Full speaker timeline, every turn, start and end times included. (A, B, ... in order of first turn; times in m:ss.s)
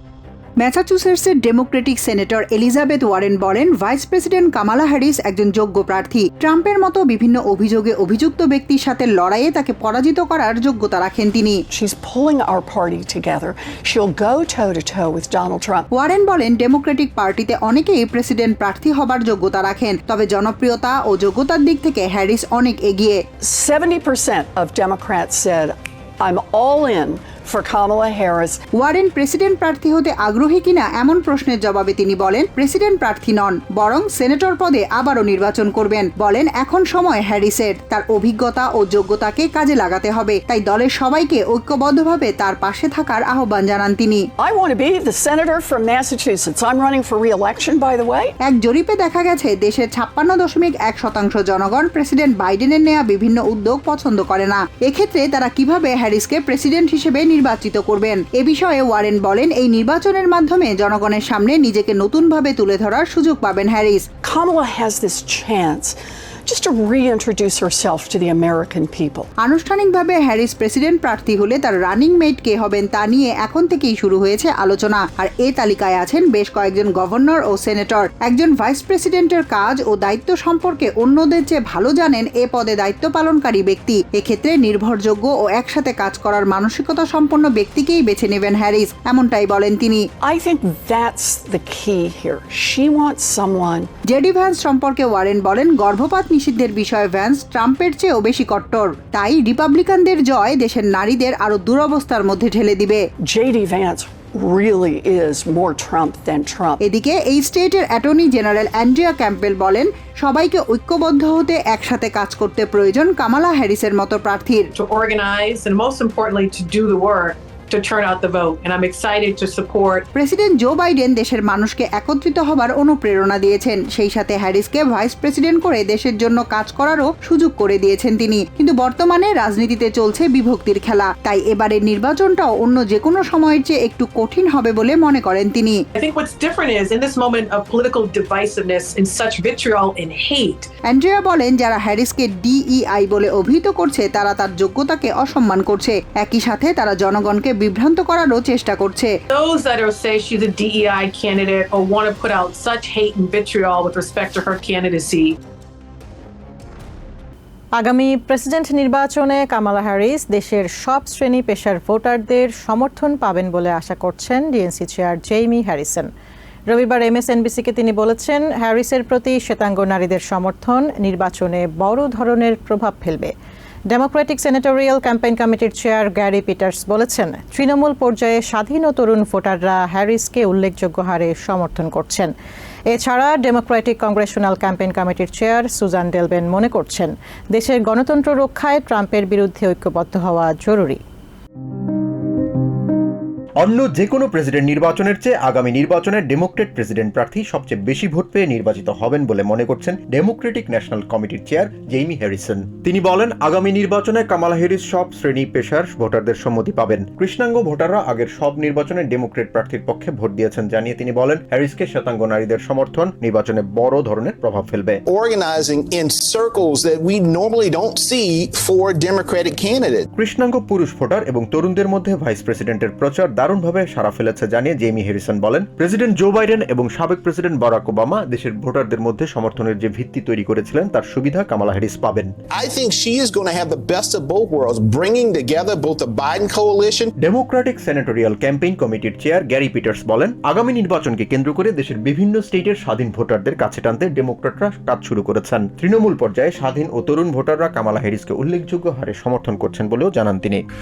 0:00.6-0:11.6 A
0:11.7-0:15.8 B
0:15.9-0:23.2 A
0:23.4-0:28.6 B
0:28.7-0:44.2 A
0:44.4-0:48.3 B
0:48.4-1:04.0 A
1:04.2-1:09.3 B
1:09.4-1:30.0 A
1:30.2-1:33.9 B
1:34.1-1:43.0 A
1:43.2-1:46.8 B
1:46.8-1:54.7 A
1:54.8-2:00.0 C
2:00.1-2:15.8 A
2:15.9-2:20.7 C
2:20.8-2:29.1 A
2:29.3-2:35.4 C
2:37.8-2:46.1 D
2:46.7-2:53.3 D
2:53.9-3:02.3 D
3:02.9-3:11.0 D
3:13.6-3:35.0 E
3:35.1-3:40.0 F
3:40.2-3:52.3 E
3:52.6-3:57.1 F
3:57.2-4:10.6 E